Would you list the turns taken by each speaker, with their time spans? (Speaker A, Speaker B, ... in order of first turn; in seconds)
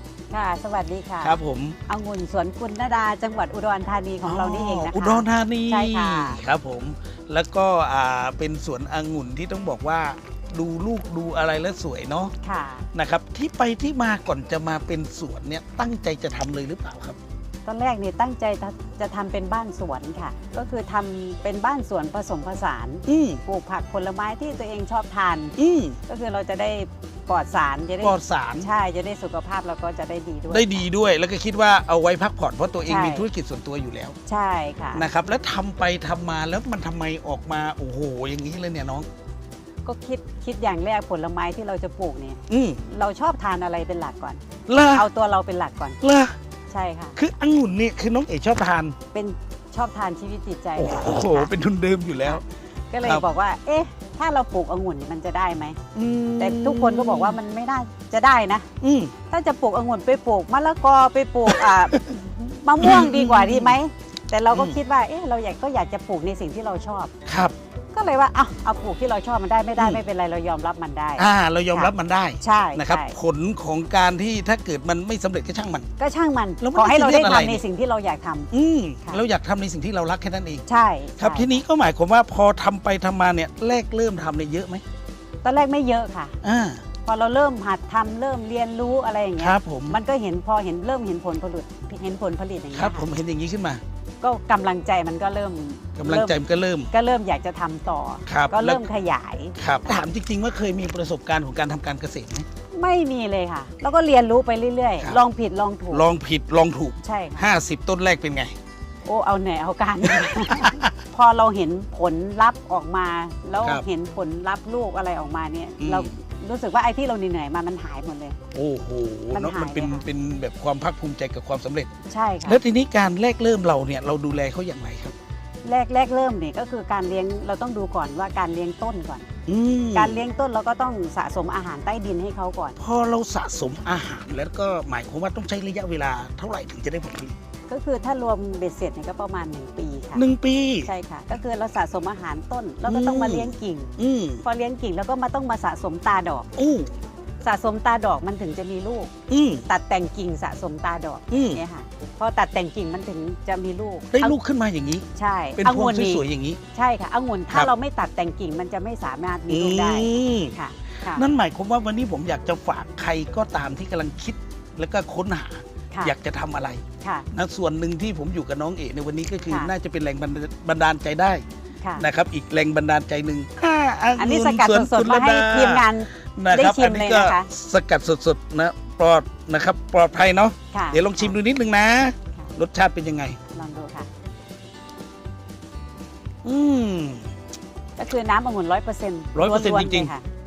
Speaker A: 0.3-6.4, 12.4-12.8, 17.7-25.5, 26.1-30.8, 32.8-33.2, 34.2-35.1, 39.8-44.4, 44.9-46.0, 46.7-47.2, 49.1-51.5, 52.2-55.8, 56.4-58.7, 59.3-67.1, 67.9-71.9, 72.4-73.1, 76.0-78.5, 80.7-81.6, 85.4-86.3, 87.1-93.1, 94.2-96.4, 96.9-99.6, 102.8-106.1, 107.0-107.5, 109.0-118.4, 119.3-120.1, 122.1-122.6, 125.6-129.2, 129.9-132.8, 137.7-140.2, 140.8-146.5, 147.4-149.1, 149.7-154.4, 155.1-161.3, 167.0-167.3, 174.2-177.5, 180.7-181.3, 183.5-184.1, 188.0-190.2
Speaker B: 1.2-1.8, 4.2-12.3, 12.9-17.2, 23.1-23.4, 25.6-26.0, 28.0-28.7, 30.5-34.2, 34.9-39.1, 42.5-42.8, 44.7-45.0, 46.0-46.3, 47.2-49.0, 50.8-52.4, 55.9-57.4, 58.8-59.1, 61.5-62.1, 62.8-63.8, 64.5-64.8, 67.2-67.5, 69.8-70.0, 71.2-75.9, 76.6-77.6, 78.5-80.6, 81.2-84.8, 86.4-86.8, 89.4-90.0, 92.7-93.8, 96.0-96.9, 98.3-98.8, 99.6-102.5, 105.9-108.5, 110.0-110.9, 113.6-113.8, 115.8-116.1, 118.5-121.9, 122.4-125.1, 129.5-130.2, 132.8-137.3, 140.1-140.9, 142.9-144.4, 146.6-146.9, 149.3-149.7, 151.3-151.6, 154.1-155.0, 155.6-156.6, 159.5-160.6, 161.1-171.4, 172.0-183.4, 186.4-187.3, 189.3-190.1